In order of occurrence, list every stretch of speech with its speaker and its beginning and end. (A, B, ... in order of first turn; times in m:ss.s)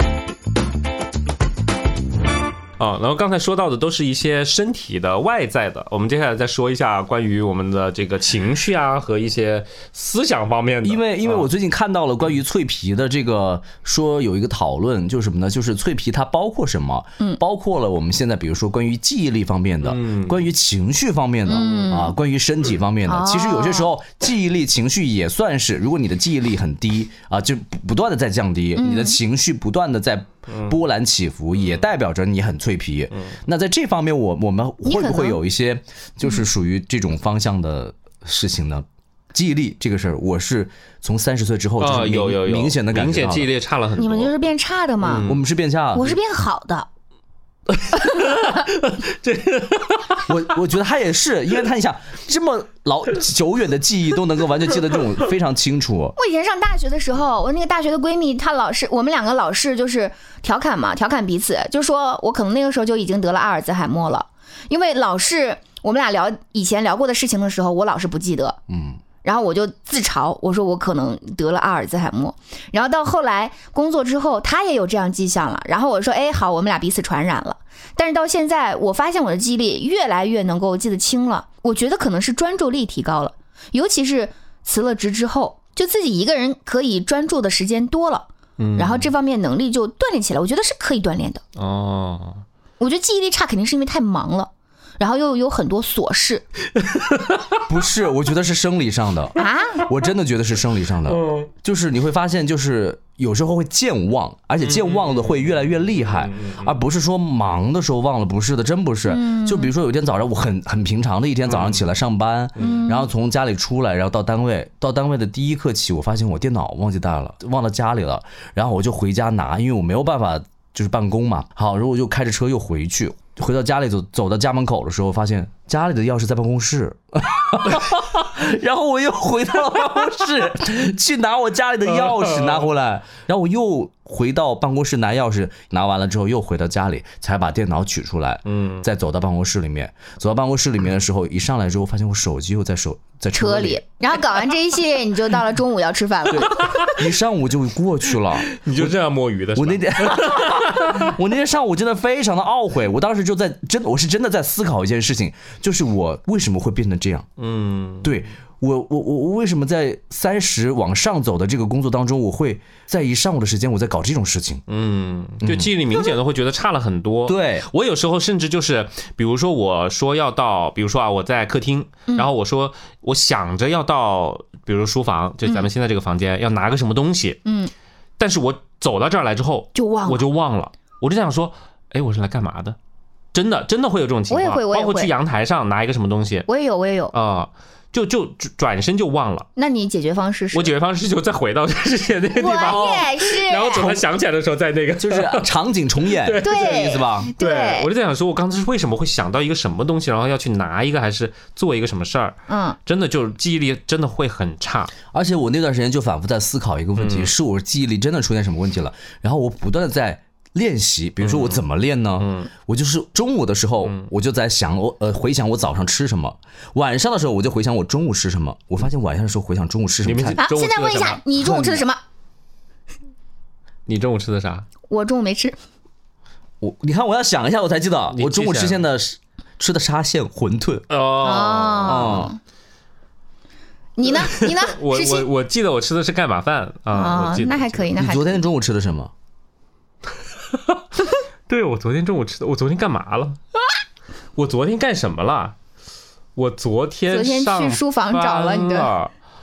0:02.8-0:11.5 A
0:10.8-0:43.5 B
0:19.8-0:20.4 A
0:21.4-0:22.2 C
0:23.0-0:23.9 C
0:28.8-0:29.2 C
0:30.5-0:30.8 A
0:34.8-0:35.4 C
0:41.8-0:44.3 A
0:44.0-0:45.3 C
0:45.0-0:45.4 A
0:45.2-0:46.2 B
0:45.9-0:46.9 C
0:47.7-0:50.3 A
0:50.2-0:56.1 B
0:56.2-1:08.6 C
1:08.7-1:09.0 B
1:09.2-1:31.4 C
1:28.6-1:29.1 A
1:31.6-1:32.4 A
1:32.8-1:36.4 C
1:37.0-1:37.4 A
1:37.6-2:23.8 B
1:39.4-1:39.8 C
1:41.1-1:41.5 A
1:44.6-1:46.7 A
1:49.1-1:49.7 C
1:51.5-1:51.8 A
1:52.6-1:53.1 C
2:11.9-2:12.7 A
2:18.5-2:18.8 A
2:23.3-2:26.9 C
2:26.4-2:28.9 B
2:26.4-2:26.9 A
2:28.5-2:31.1 A
2:29.5-2:37.3 B
2:37.4-2:38.1 A
2:38.0-2:44.6 B
2:44.7-2:57.4 A
2:45.4-2:45.7 B
2:47.3-2:47.6 B
2:57.4-2:57.7 C
2:58.2-3:02.8 A
2:59.7-3:00.3 C
3:03.3-3:06.5 A
3:04.3-3:05.1 C
3:06.5-3:07.1 C
3:07.1-3:09.5 A
3:09.6-3:10.7 C
3:10.5-3:15.5 A
3:12.3-3:14.0 C
3:15.0-3:17.3 B
3:16.1-3:24.9 A
3:16.4-3:17.9 C
3:22.5-3:22.8 C
3:25.1-3:40.4 B
3:27.0-3:27.3 A
3:31.2-3:31.6 A
3:32.2-3:32.5 A
3:33.8-3:34.1 A
3:40.0-3:41.2 A
3:40.4-3:42.0 C
3:41.4-3:41.8 B
3:43.9-3:44.6 A
3:44.9-3:45.6 C
3:46.6-3:50.8 B
3:48.1-3:48.8 A
3:50.9-3:52.2 A
3:51.2-3:52.4 C
3:51.8-3:52.3 B
3:54.0-3:55.3 C
3:54.1-3:57.9 A
3:56.9-3:58.4 C
3:58.0-3:59.1 B
4:00.5-4:00.8 A
4:01.5-4:03.4 A
4:04.4-4:05.5 A
4:06.4-4:09.1 A
4:07.1-4:08.9 C